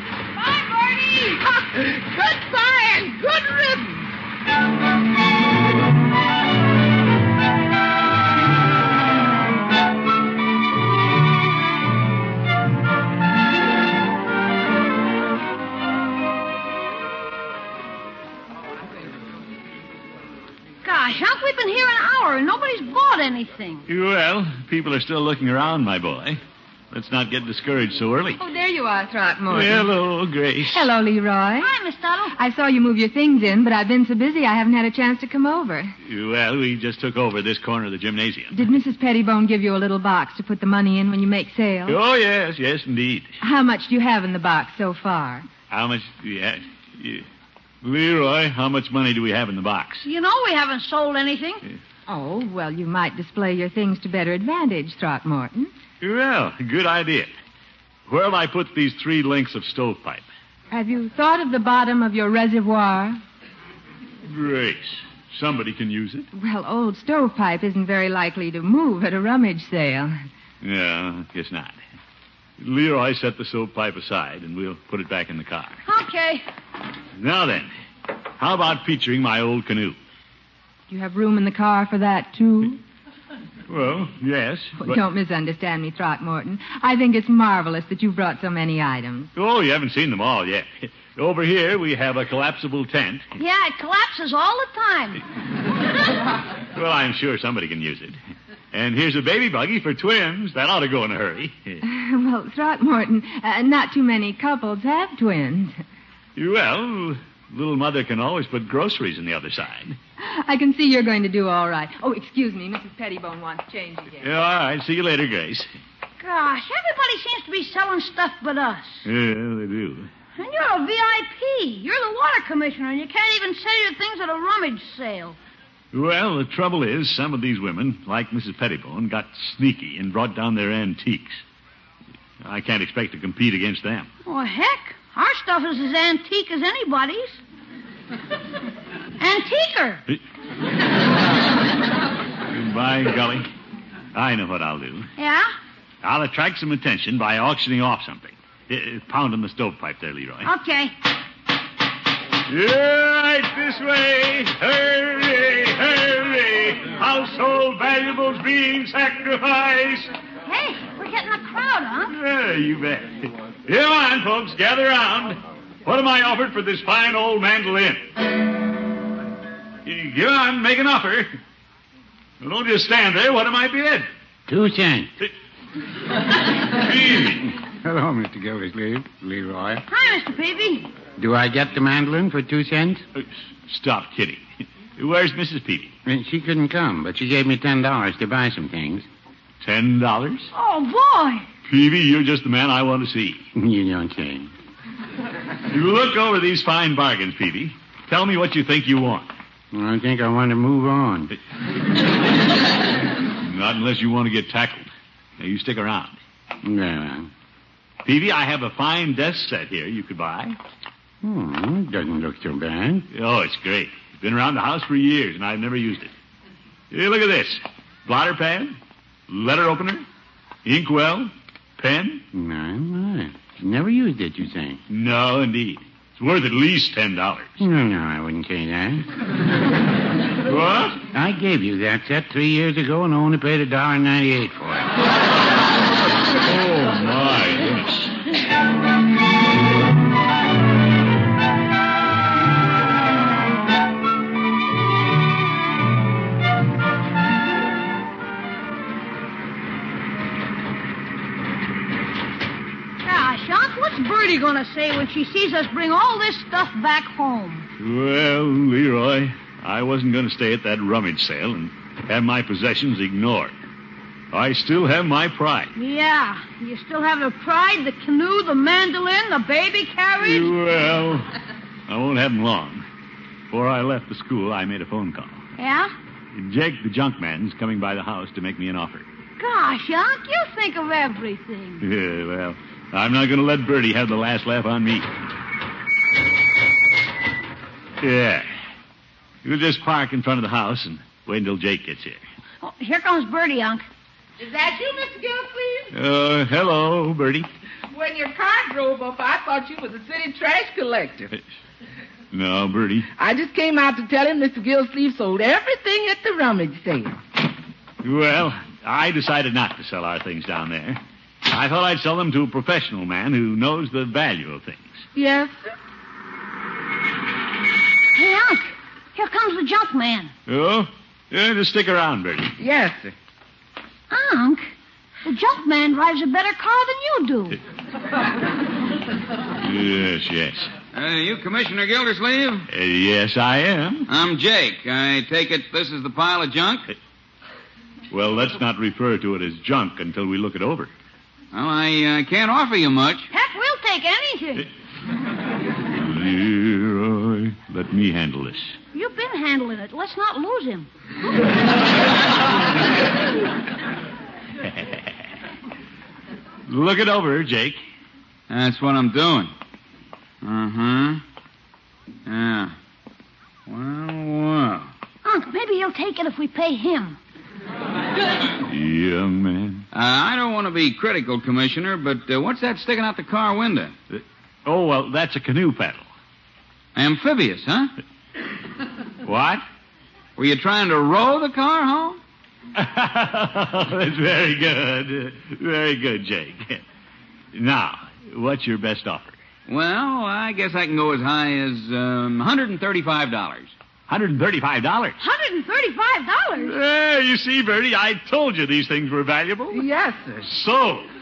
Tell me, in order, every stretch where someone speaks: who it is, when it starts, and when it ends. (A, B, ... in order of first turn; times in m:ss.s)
0:00.4-0:01.4 A
0:01.4-0:04.0 B
0:20.8-0:23.8 A
0:23.9-0:26.4 C
0:26.9-0:28.4 C
0:28.4-0:29.9 D
0:29.5-0:30.9 C
0:30.7-0:31.7 D
0:31.6-0:32.3 A
0:32.3-0:35.9 D
0:36.0-0:38.6 C
0:38.5-0:42.0 D
0:41.9-0:43.3 C
0:43.4-0:45.5 D
0:45.7-0:47.2 C
0:47.8-0:50.0 C
0:50.0-0:51.6 A
0:52.1-0:55.7 D
0:56.0-0:57.3 C
0:58.1-1:00.2 C
1:00.7-1:03.2 D
1:04.3-1:06.3 C
1:06.3-1:10.2 D
1:10.6-1:11.8 C
1:12.6-1:15.8 C
1:15.8-1:16.4 A
1:17.2-1:17.7 C
1:18.4-1:20.0 C
1:20.9-1:22.8 D
1:23.7-1:25.0 C
1:24.8-1:29.3 D
1:29.3-1:33.3 C
1:33.4-1:35.2 A
1:36.7-1:38.2 C
1:38.7-1:41.8 C
1:41.8-1:45.8 D
1:46.4-1:50.0 C
1:50.2-1:54.3 D
1:54.2-1:55.7 C
1:56.2-1:59.0 A
1:59.0-2:00.1 C
2:00.3-2:05.4 A
2:05.9-2:11.4 C
2:12.4-2:14.1 C
2:14.2-2:17.4 A
2:19.2-2:20.0 A
2:22.5-2:23.5 C
2:24.1-2:25.1 C
2:25.2-2:25.5 A
2:26.0-2:30.5 C
2:30.4-2:30.9 A
2:32.5-2:40.1 C
2:40.4-2:42.1 A
2:42.1-2:48.0 C
2:49.8-2:51.3 C
2:52.4-2:54.1 C
2:54.5-2:55.1 E
2:56.6-2:57.5 C
2:57.6-2:59.8 E
2:59.9-3:00.9 A
3:01.2-3:03.0 E
3:03.1-3:05.9 C
3:06.0-3:09.0 E
3:09.6-3:10.5 C
3:10.5-3:11.4 A
3:11.7-3:13.4 C
3:13.5-3:14.5 E
3:15.7-3:19.3 C
3:19.7-3:21.3 E
3:23.4-3:24.9 C
3:25.4-3:26.2 C
3:26.6-3:27.3 E
3:28.0-3:30.6 C
3:31.2-3:33.1 E
3:33.1-3:36.1 C
3:36.9-3:38.8 C
3:39.3-3:40.0 C
3:40.6-3:42.2 C
3:42.3-3:44.8 E
3:44.9-3:47.5 C
3:47.6-3:49.1 E
3:50.4-3:51.0 C
3:51.1-3:54.9 E
3:56.4-3:58.2 C
4:13.0-4:17.7 A
4:17.8-4:23.5 C
4:24.3-4:25.7 C
4:25.8-4:30.5 A
4:30.2-4:31.3 C
4:31.9-4:32.8 C
4:33.5-4:35.4 C
4:35.6-4:35.9 A
4:36.3-4:39.0 C
4:39.4-4:41.8 A
4:41.8-4:45.1 C
4:48.0-4:48.5 C
4:49.4-4:52.2 C
4:52.6-4:53.8 A
4:54.4-4:55.9 B
4:55.9-4:57.5 C
4:57.9-5:01.3 B
5:02.3-5:03.1 C
5:03.2-5:07.2 B
5:08.0-5:15.0 C
5:15.1-5:15.7 B
5:18.1-5:20.3 A
5:20.5-5:22.5 C
5:22.6-5:23.1 B
5:24.1-5:24.7 A
5:25.2-5:27.6 A
5:29.6-5:30.7 C
5:30.9-5:32.7 F
5:32.7-5:34.1 C
5:34.1-5:36.9 F
5:38.1-5:40.9 C
5:41.5-5:43.3 F
5:43.3-5:44.7 A
5:45.9-5:48.8 C
5:48.9-5:50.9 A
5:54.6-5:55.0 C
5:56.7-5:57.8 C
5:58.5-5:59.5 F
6:00.4-6:01.2 F
6:02.2-6:02.7 F
6:03.7-6:04.9 F
6:05.2-6:07.2 A
6:08.6-6:09.8 C
6:09.9-6:13.9 F
6:14.1-6:16.1 C
6:16.9-6:17.9 F
6:19.2-6:19.6 C
6:20.4-6:22.2 F
6:22.7-6:26.8 C
6:27.5-6:29.4 C
6:29.7-6:33.7 F
6:34.1-6:35.2 C
6:35.2-6:36.8 A
6:36.6-6:39.8 C
6:39.7-6:40.5 B
6:40.4-6:41.1 C